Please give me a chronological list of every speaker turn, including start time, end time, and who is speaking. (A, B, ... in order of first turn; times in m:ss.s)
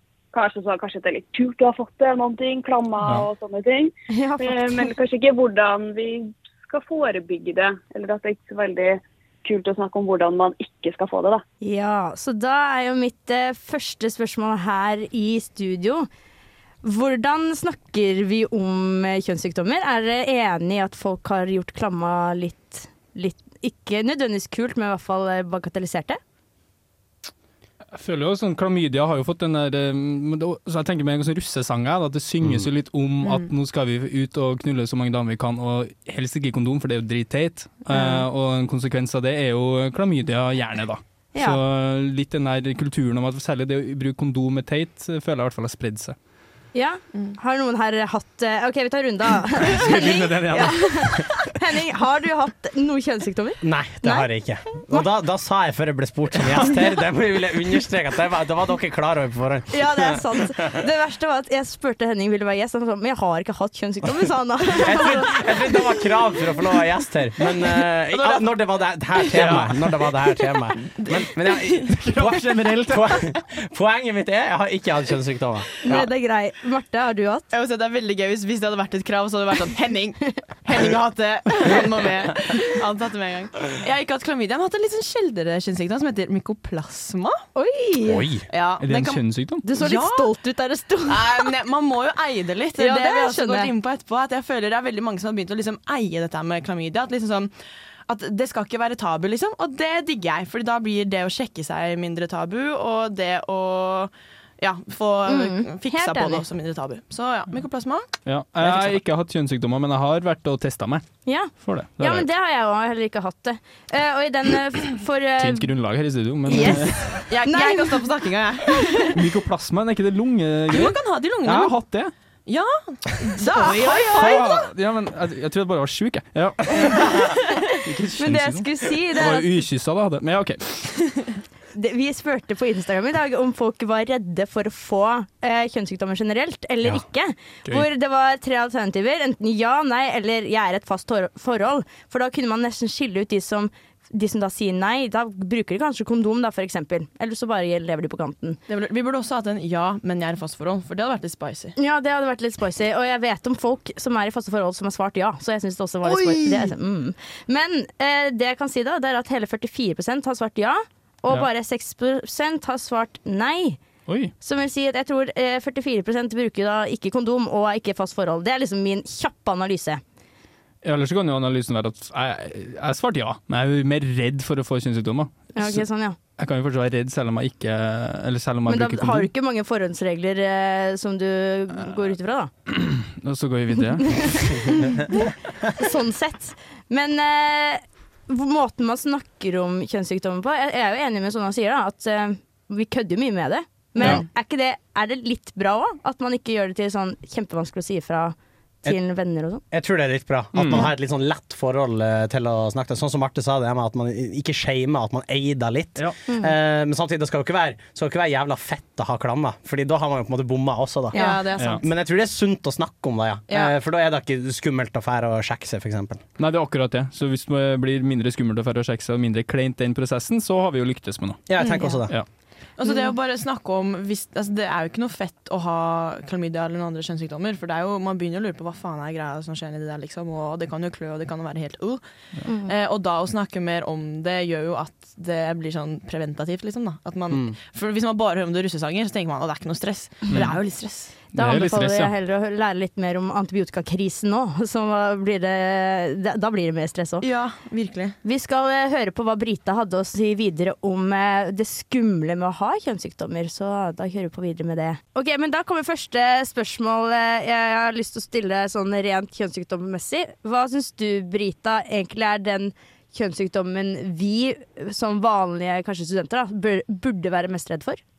0:00.3-0:11.4 A
0:04.1-0:04.9 B
0:11.6-0:16.1 B
0:16.8-0:26.2 B
0:27.9-0:46.1 C
0:32.4-0:32.7 D
0:33.2-0:33.5 E
0:37.9-0:38.2 B
0:41.3-0:41.6 B
0:46.7-0:55.1 B
0:49.7-0:51.4 C
0:53.6-1:00.2 D
0:59.7-1:05.7 B
1:04.7-1:16.1 D
1:08.1-1:08.5 E
1:09.2-1:09.6 E
1:09.3-1:09.7 C
1:11.0-1:13.3 E
1:15.8-1:17.5 B
1:17.5-1:27.4 E
1:27.5-1:28.3 B
1:28.0-1:28.5 D
1:28.5-1:30.3 E
1:28.8-1:29.6 C
1:29.6-1:31.5 B
1:31.1-1:37.5 E
1:32.8-1:33.7 B
1:38.1-1:49.0 E
1:45.3-1:46.4 B
1:48.2-1:52.3 C
1:51.2-1:55.7 B
1:55.4-1:57.2 C
1:56.5-1:58.0 B
1:56.5-1:59.2 E
1:59.2-2:02.1 C
2:00.7-2:04.5 E
2:03.4-2:04.5 B
2:04.1-2:07.1 C
2:06.7-2:07.4 E
2:07.8-2:11.1 C
2:08.2-2:09.5 B
2:11.7-2:28.6 B
2:28.7-2:31.7 E
2:31.8-2:43.8 B
2:36.0-2:36.7 E
2:44.1-2:44.3 C
2:44.4-2:50.0 B
2:50.8-2:55.8 C
2:55.6-2:56.2 B
2:56.4-2:59.3 C
2:58.7-3:02.5 B
3:02.7-3:04.6 C
3:04.0-3:05.2 B
3:05.7-3:19.6 B
3:14.0-3:14.2 C
3:19.7-3:31.2 D
3:20.5-3:20.9 C
3:26.3-3:26.5 B
3:31.1-3:31.4 B
3:31.1-3:31.8 E
3:31.6-3:31.8 C
3:31.8-3:36.2 D
3:36.4-3:41.6 C
3:41.5-3:42.1 D
3:41.6-3:42.0 E
3:42.7-3:52.0 E
3:42.8-3:43.1 B
3:52.4-3:52.7 B
3:52.6-4:01.1 E
3:57.3-3:57.6 D
4:00.3-4:00.5 C
4:01.3-4:02.1 C
4:01.3-4:07.2 B
4:07.2-4:08.1 E
4:08.2-4:28.0 B